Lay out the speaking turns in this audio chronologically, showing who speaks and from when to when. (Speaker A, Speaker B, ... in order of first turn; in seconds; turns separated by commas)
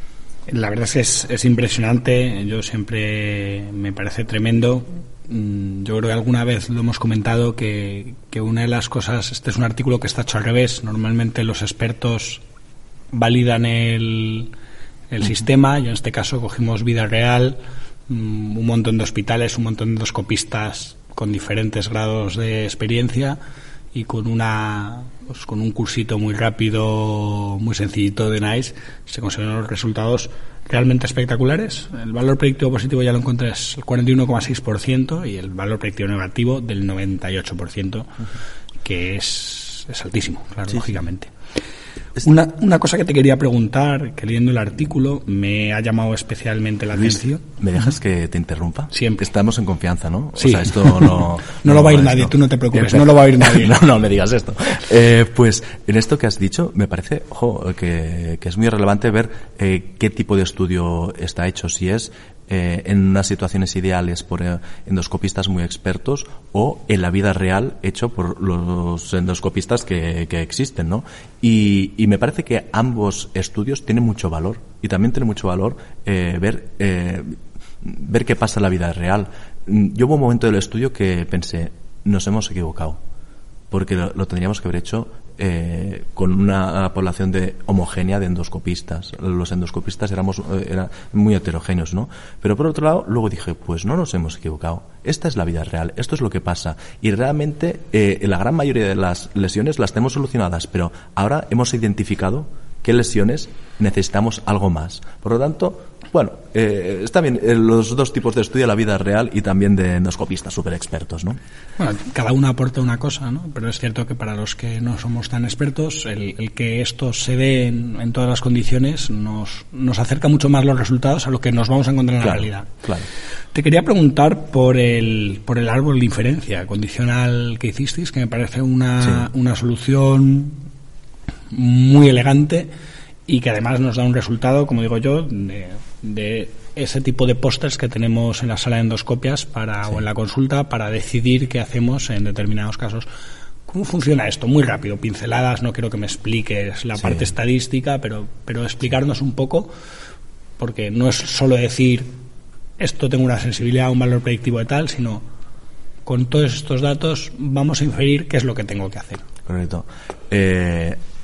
Speaker A: 0.5-12.4, Speaker A: 13.1-14.5, Speaker A: 15.1-23.4, Speaker A: 23.9-38.2, Speaker A: 38.8-41.3, Speaker B: 40.7-41.0, Speaker A: 42.2-47.4, Speaker B: 46.9-83.0, Speaker A: 48.9-49.2, Speaker A: 50.4-53.8, Speaker B: 83.7-111.4, Speaker A: 111.8-122.7, Speaker B: 122.2-123.1, Speaker A: 123.5-130.6, Speaker B: 129.0-129.3, Speaker A: 131.5-132.7, Speaker A: 133.3-143.1, Speaker A: 143.7-149.7, Speaker B: 147.0-147.3, Speaker A: 150.6-152.1, Speaker A: 152.8-155.2, Speaker A: 156.0-159.2, Speaker B: 159.5-161.0